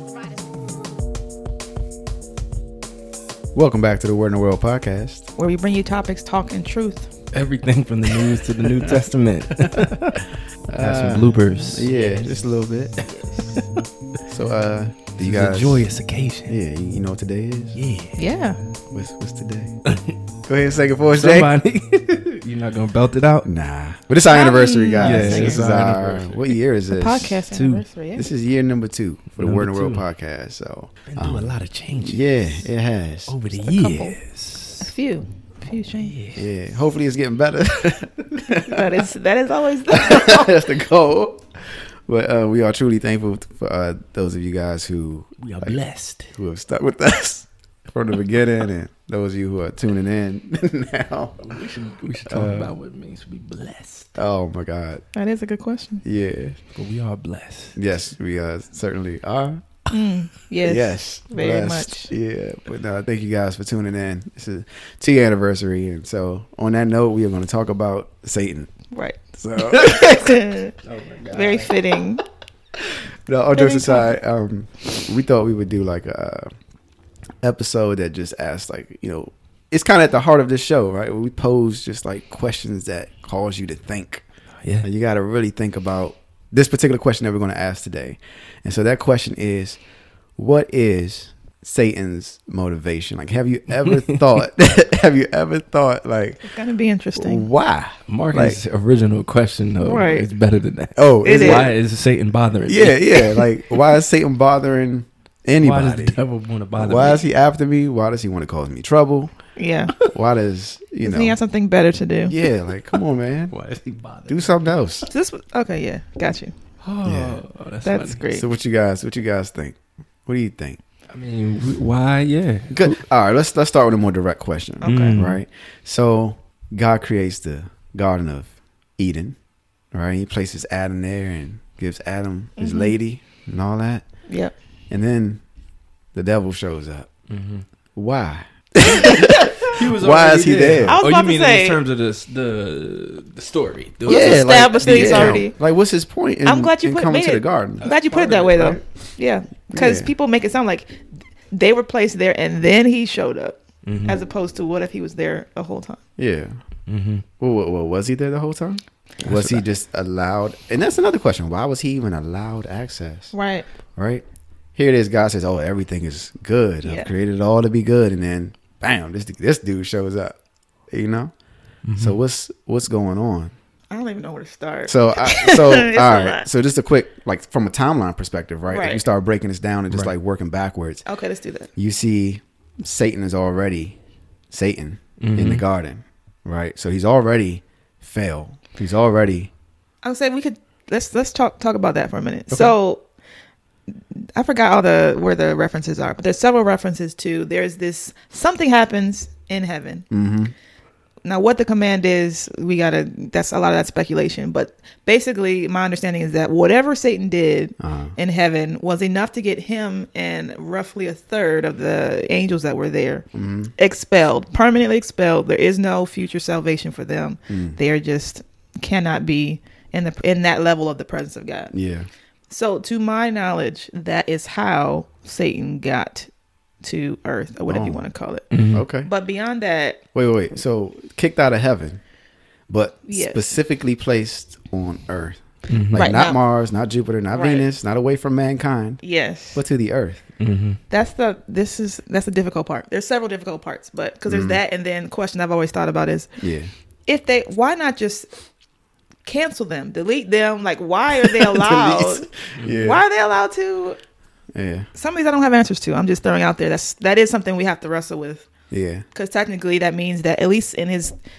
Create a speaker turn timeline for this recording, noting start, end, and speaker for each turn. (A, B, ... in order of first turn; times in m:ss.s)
0:03.5-0:05.3 A
0:05.4-0:07.1 B
0:07.3-0:12.4 C
0:08.3-0:09.0 A
0:09.7-0:13.0 A
0:13.0-0:13.7 C
0:14.3-0:15.9 A
0:15.2-0:16.5 C
0:16.5-0:17.8 A
0:17.8-0:18.2 C
0:18.2-0:18.6 B
0:18.9-0:19.8 A
0:19.9-0:20.1 C
0:20.5-0:21.5 A
0:21.2-0:23.5 C
0:23.4-0:27.4 A
0:24.3-0:25.6 B
0:25.0-0:26.6 C
0:26.9-0:28.3 B
0:27.5-0:27.8 C
0:28.2-0:34.0 A
0:29.4-0:30.0 C
0:31.0-0:32.7 C
0:33.3-0:34.9 C
0:33.8-0:34.2 B
0:34.8-0:36.1 B
0:36.0-0:36.5 C
0:36.4-0:38.8 A
0:38.6-0:40.5 B
0:39.9-0:45.8 A
0:45.4-0:46.4 C
0:46.4-0:51.6 A
0:51.4-0:54.1 C
0:52.3-0:52.7 A
0:54.2-0:55.0 A
0:55.1-0:56.0 B
0:56.0-0:56.6 A
0:56.8-0:57.8 C
0:57.8-0:59.6 A
0:59.9-1:02.1 B
1:00.6-1:08.7 A
1:08.9-1:10.7 B
1:09.4-1:10.1 A
1:10.8-1:11.7 C
1:11.3-1:12.2 B
1:13.3-1:16.5 A
1:13.6-1:14.2 B
1:17.4-1:24.2 A
1:24.8-1:29.8 A
1:30.4-1:36.6 A
1:33.8-1:34.2 C
1:36.4-1:37.5 B
1:37.2-1:38.6 A
1:38.1-1:43.9 C
1:39.8-1:40.3 B
1:41.0-1:41.8 A
1:41.2-1:41.7 B
1:42.7-1:46.2 A
1:45.6-1:47.2 C
1:46.8-1:49.3 A
1:49.6-1:49.9 B
1:50.1-1:51.4 A
1:51.0-1:52.3 B
1:52.3-1:53.6 A
1:52.9-1:55.1 C
1:54.3-1:55.1 A
1:55.1-1:56.5 B
1:56.8-1:58.2 C
1:57.0-1:57.4 A
1:57.8-1:58.4 B
1:58.3-2:00.8 A
2:01.1-2:03.0 C
2:02.7-2:09.4 A
2:04.8-2:05.2 B
2:04.8-2:05.4 C
2:09.9-2:14.0 A
2:12.6-2:13.0 B
2:14.3-2:14.5 B
2:14.9-2:15.4 A
2:16.1-2:17.1 A
2:17.3-2:17.7 C
2:18.0-2:21.0 A
2:19.0-2:25.5 C
2:20.9-2:21.8 B
2:24.0-2:27.9 A
2:24.1-2:25.6 B
2:26.4-2:36.0 B
2:27.8-2:28.8 C
2:29.7-2:30.1 A
2:33.8-2:34.2 C
2:36.2-2:36.6 A
2:36.9-2:37.3 C
2:37.4-2:43.3 A
2:39.2-2:39.6 C
2:43.3-2:43.7 B
2:44.0-2:44.2 A
2:44.8-2:50.4 A
2:46.8-2:47.1 B
2:50.9-2:51.3 A
2:51.9-2:52.2 C
2:52.0-2:53.5 A
2:53.9-2:56.5 B
2:54.9-3:01.0 A
2:58.7-2:59.0 B
3:01.1-3:01.7 B
3:01.8-3:04.0 A
3:04.5-3:09.5 A
3:05.2-3:05.6 C
3:10.0-3:13.0 B
3:13.9-3:20.1 B
3:20.1-3:20.5 A
3:21.2-3:33.3 B
3:27.8-3:28.2 A
3:33.3-3:33.7 A
3:33.8-3:41.7 B
3:37.5-3:37.8 A
3:41.7-3:42.1 A
3:42.5-3:46.3 B
3:46.8-3:48.4 B
3:47.7-3:48.0 A
3:48.5-3:48.8 C
3:48.7-3:49.1 A
3:49.0-3:50.0 B
3:50.1-3:52.0 A
3:52.7-3:59.0 A
3:53.1-3:53.5 B
3:55.7-3:56.1 C
3:56.0-3:56.4 B
3:57.3-3:57.7 B
3:59.0-3:59.6 B
3:59.5-4:00.2 A
4:00.4-4:00.8 C
4:00.9-4:06.3 B
4:04.3-4:04.6 A
4:06.4-4:06.7 A
4:07.1-4:08.3 B
4:09.2-4:14.0 B
4:11.2-4:13.0 A
4:14.5-4:14.9 A
4:15.0-4:18.5 B
4:18.7-4:19.0 A
4:19.1-4:21.2 B